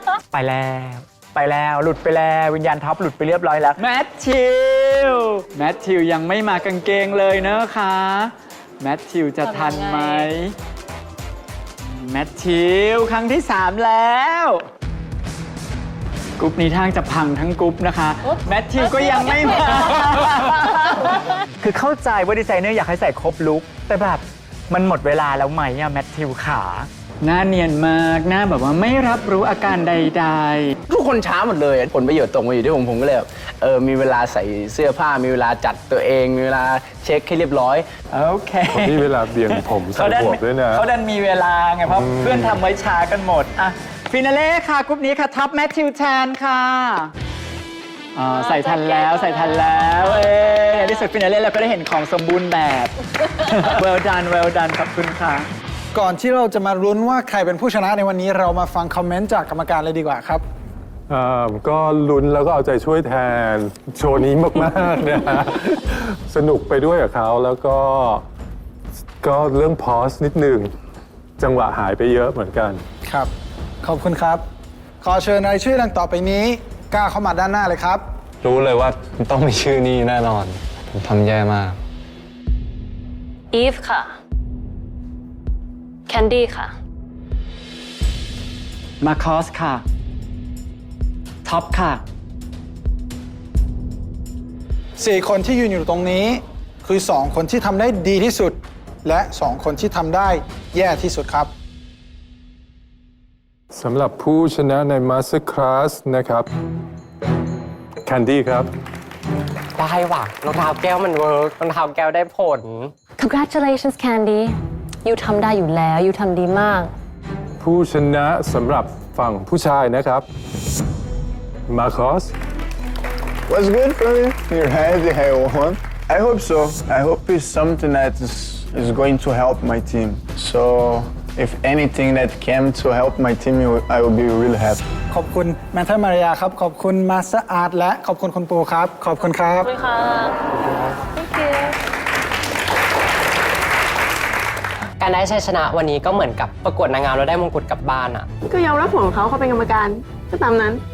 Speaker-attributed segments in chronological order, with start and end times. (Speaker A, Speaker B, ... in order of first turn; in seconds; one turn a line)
Speaker A: 0.3-10.5
Speaker B: 9.5-10.2
Speaker A: 11.8-14.6
Speaker A: 16.4-30.7
Speaker C: 30.9-37.9
Speaker A: 38.1-47.1
Speaker D: 38.7-40.8
Speaker D: 41.9-42.6
Speaker A: 48.1-55.5
Speaker B: 48.5-49.8
Speaker E: 55.9-60.4
Speaker D: 61.1-68.2
Speaker D: 69.2-70.7
Speaker D: 71.4-72.8
Speaker E: 73.8-74.4
Speaker E: 75.0-78.0
Speaker F: 78.4-81.8
Speaker D: 86.3-86.7
Speaker A: 89.0-89.8
Speaker A: 91.4-92.0
Speaker E: 95.0-101.5
Speaker D: 103.7-106.5
Speaker D: 108.0-108.7
Speaker G: 109.8-112.9
Speaker H: 113.2-116.9
Speaker D: 117.6-120.2
Speaker D: 121.7-122.3
Speaker I: 123.5-134.8
Speaker E: 135.1-139.7
Speaker B: 139.6-140.3
Speaker G: 145.0-148.3
Speaker J: 148.4-150.8